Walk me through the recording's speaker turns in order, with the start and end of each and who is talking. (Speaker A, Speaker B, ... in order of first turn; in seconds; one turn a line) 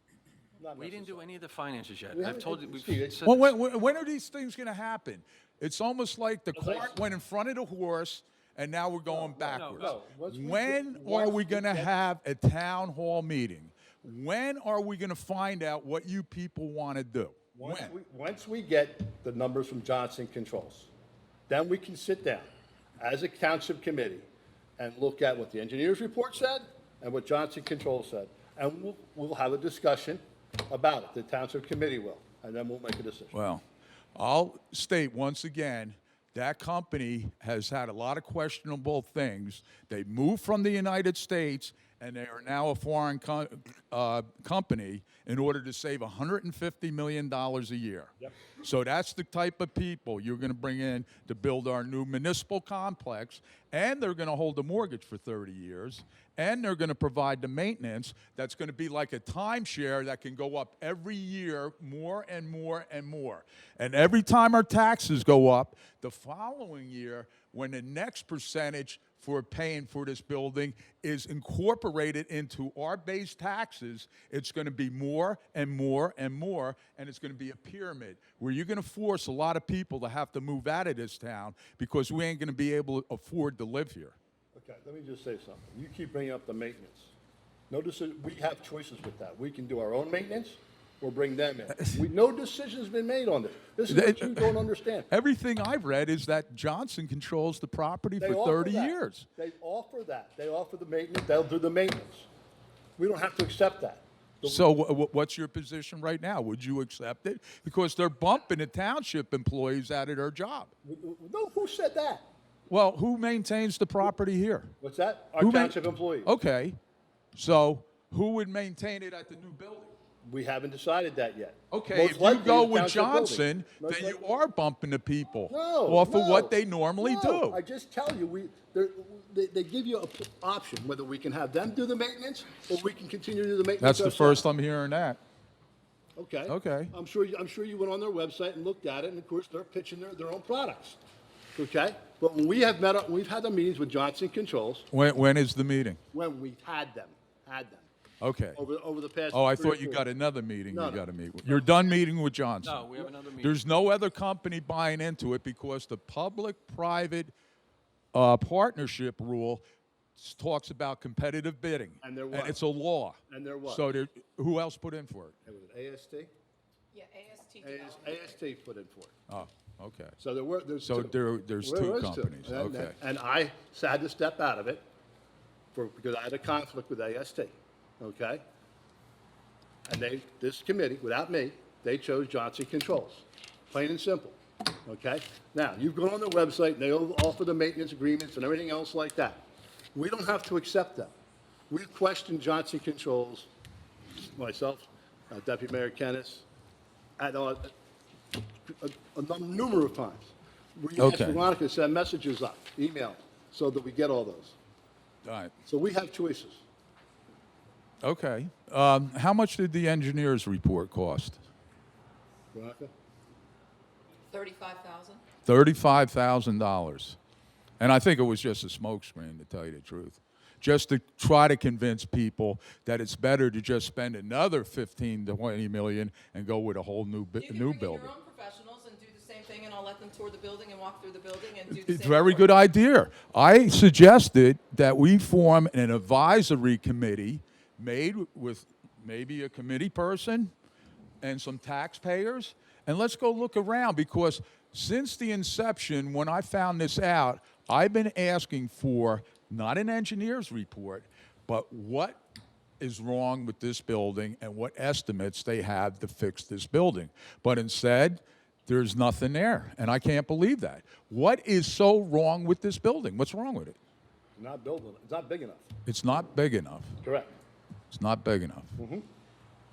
Speaker A: 0.6-1.3
Speaker B: 0.7-3.5
Speaker A: 2.1-3.2
Speaker C: 3.2-17.9
Speaker A: 6.5-6.9
Speaker A: 9.1-11.9
Speaker B: 9.5-10.0
Speaker A: 17.5-20.9
Speaker A: 21.5-22.5
Speaker A: 23.0-24.3
Speaker A: 24.8-33.3
Speaker C: 33.3-33.6
Speaker C: 34.1-84.2
Speaker A: 84.5-87.1
Speaker A: 87.7-95.1
Speaker C: 93.9-94.6
Speaker C: 95.1-99.3
Speaker A: 98.2-102.3
Speaker A: 103.0-104.7
Speaker C: 104.4-110.7
Speaker A: 110.8-112.3
Speaker C: 112.7-114.7
Speaker A: 114.8-116.3
Speaker C: 115.4-116.8
Speaker C: 117.3-119.9
Speaker A: 120.2-124.2
Speaker C: 121.7-127.6
Speaker A: 125.5-134.5
Speaker C: 133.8-135.2
Speaker A: 136.2-141.0
Speaker C: 136.5-136.9
Speaker A: 141.6-144.9
Speaker C: 144.9-146.0
Speaker A: 146.1-147.9
Speaker C: 148.2-148.6
Speaker A: 148.6-150.1
Speaker C: 149.3-157.3
Speaker A: 150.7-151.8
Speaker B: 152.6-153.6
Speaker C: 158.1-159.6
Speaker C: 160.2-165.4
Speaker A: 162.0-162.6
Speaker A: 163.3-163.8
Speaker A: 165.5-166.3
Speaker D: 166.9-168.3
Speaker A: 167.6-169.2
Speaker C: 169.3-170.2
Speaker A: 170.2-174.8
Speaker C: 170.8-173.0
Speaker A: 175.7-178.4
Speaker A: 179.9-191.1
Speaker A: 191.7-193.5
Speaker A: 194.3-196.5
Speaker A: 197.2-197.7
Speaker A: 198.7-204.6
Speaker C: 201.0-201.4
Speaker C: 205.2-205.5
Speaker A: 205.7-206.6
Speaker C: 208.0-211.4
Speaker A: 212.5-212.9
Speaker D: 214.3-215.2
Speaker C: 215.4-217.2
Speaker C: 217.8-228.1
Speaker D: 227.4-232.5
Speaker C: 231.7-240.5
Speaker C: 241.2-252.2
Speaker C: 252.8-263.8
Speaker A: 264.4-265.7
Speaker C: 265.9-266.9
Speaker A: 267.0-267.3
Speaker C: 267.9-268.8
Speaker A: 268.8-269.1